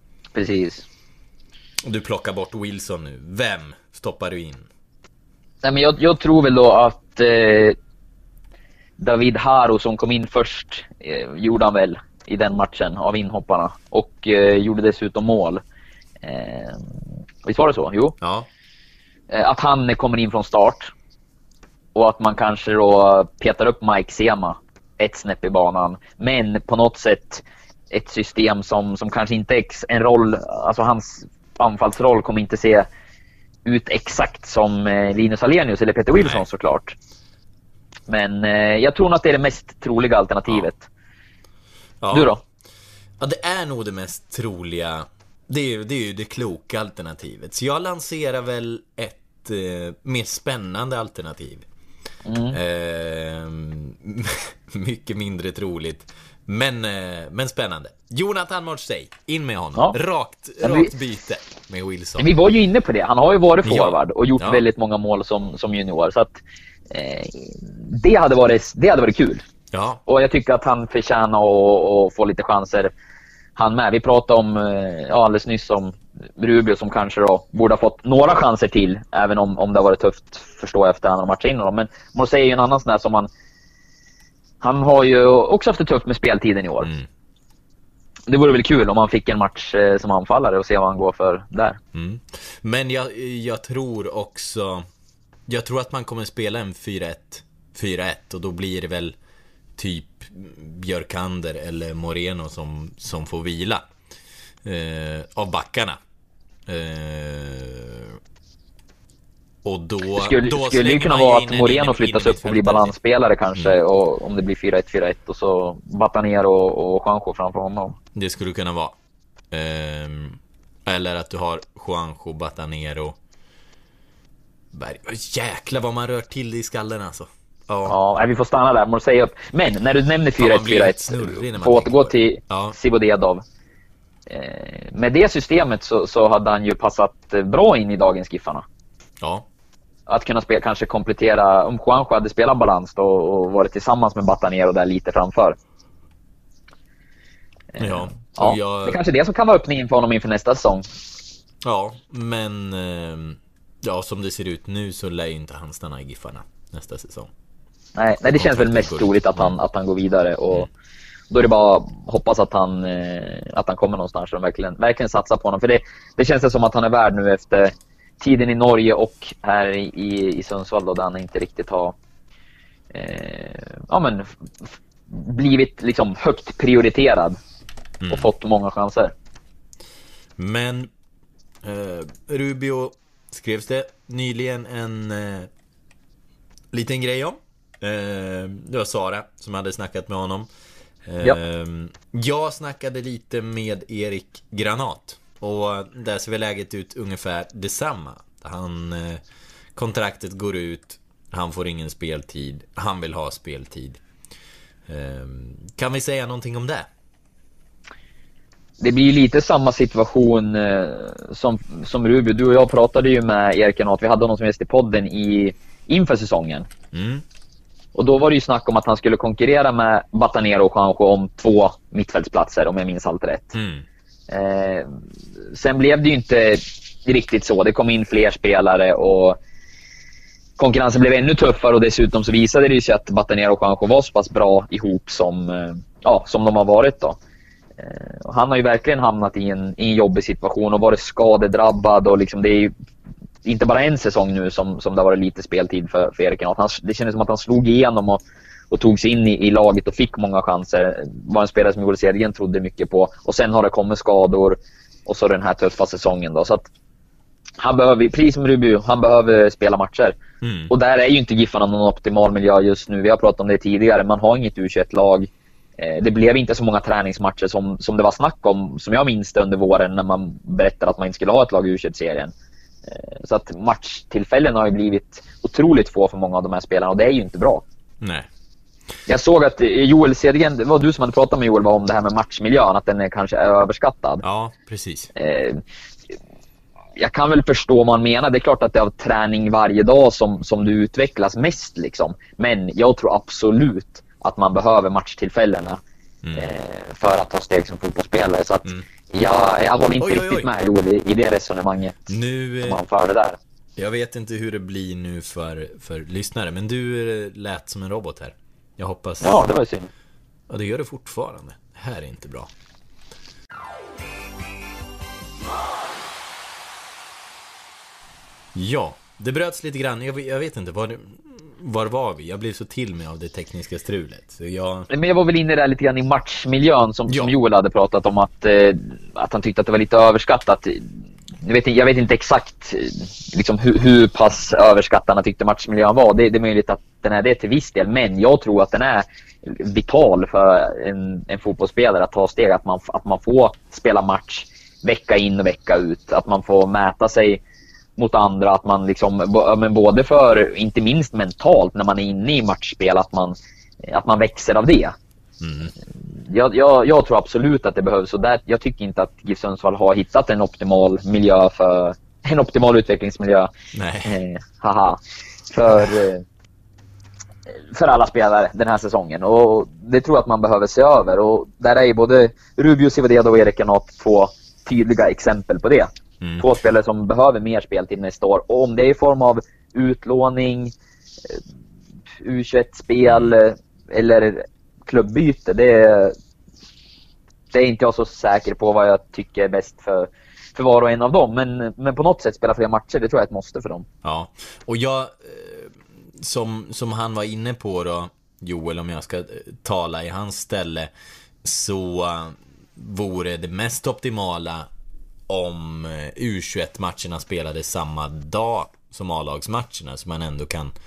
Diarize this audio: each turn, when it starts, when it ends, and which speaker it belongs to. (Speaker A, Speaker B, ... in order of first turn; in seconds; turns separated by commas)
Speaker A: 0.3-0.9, Speaker B: 1.8-4.7, Speaker A: 5.6-7.8, Speaker A: 9.0-15.6, Speaker A: 16.2-16.9, Speaker A: 17.4-18.1, Speaker B: 18.2-18.5, Speaker A: 19.3-20.9, Speaker A: 21.9-32.9, Speaker A: 33.7-37.0, Speaker B: 36.1-36.5, Speaker A: 38.1-40.9, Speaker B: 42.0-42.3, Speaker A: 42.1-42.4, Speaker B: 43.2-51.7, Speaker A: 52.2-52.6, Speaker B: 52.5-62.3, Speaker A: 60.6-60.9, Speaker A: 62.2-66.4, Speaker B: 63.6-64.6, Speaker A: 66.9-69.4, Speaker B: 69.7-70.0, Speaker A: 70.1-72.9, Speaker A: 73.6-83.3, Speaker A: 84.6-86.9, Speaker A: 88.3-91.8, Speaker B: 91.9-94.9, Speaker B: 95.5-99.2, Speaker B: 99.8-103.9, Speaker B: 104.6-106.0, Speaker B: 106.7-108.2, Speaker B: 109.6-113.0, Speaker A: 110.2-118.0, Speaker B: 118.2-119.0, Speaker B: 119.5-123.2, Speaker B: 124.7-128.0, Speaker A: 127.9-133.4, Speaker B: 130.4-132.8, Speaker A: 134.3-138.7, Speaker B: 139.2-139.5, Speaker A: 140.1-145.6, Speaker A: 147.8-150.9, Speaker B: 147.8-149.0, Speaker B: 151.6-157.3, Speaker A: 158.0-160.7, Speaker B: 158.3-159.6, Speaker A: 161.3-172.0, Speaker A: 172.9-177.4, Speaker B: 178.0-178.3, Speaker A: 178.1-179.1, Speaker B: 180.4-180.9, Speaker B: 181.6-185.5, Speaker B: 186.7-190.5, Speaker B: 191.1-199.2, Speaker B: 199.8-204.0, Speaker B: 204.9-206.9, Speaker A: 208.8-216.7, Speaker B: 216.9-217.2, Speaker A: 217.9-223.6, Speaker B: 223.5-223.9, Speaker A: 224.3-224.9, Speaker A: 225.5-229.4, Speaker A: 230.6-237.2, Speaker A: 237.8-242.7, Speaker A: 243.4-256.7, Speaker A: 257.6-260.2, Speaker B: 260.4-260.7, Speaker A: 260.7-272.3, Speaker A: 272.9-277.6, Speaker B: 278.0-278.3, Speaker A: 279.1-284.2, Speaker B: 284.2-285.1, Speaker A: 285.1-286.1, Speaker A: 287.0-295.8, Speaker B: 296.2-296.5, Speaker A: 296.4-303.4, Speaker B: 300.0-300.5, Speaker B: 302.1-302.8, Speaker B: 303.8-309.5, Speaker A: 309.2-309.9, Speaker B: 310.5-312.5, Speaker B: 318.5-324.9, Speaker A: 324.9-347.4, Speaker B: 327.1-327.3, Speaker A: 348.0-354.9, Speaker B: 355.4-355.7, Speaker A: 356.2-363.5, Speaker B: 363.7-364.2, Speaker A: 364.1-366.2, Speaker A: 367.7-380.7, Speaker B: 376.2-376.5, Speaker A: 382.2-386.2, Speaker B: 383.1-383.3, Speaker A: 387.5-393.9, Speaker B: 394.0-400.9, Speaker B: 401.4-404.7, Speaker B: 405.3-410.7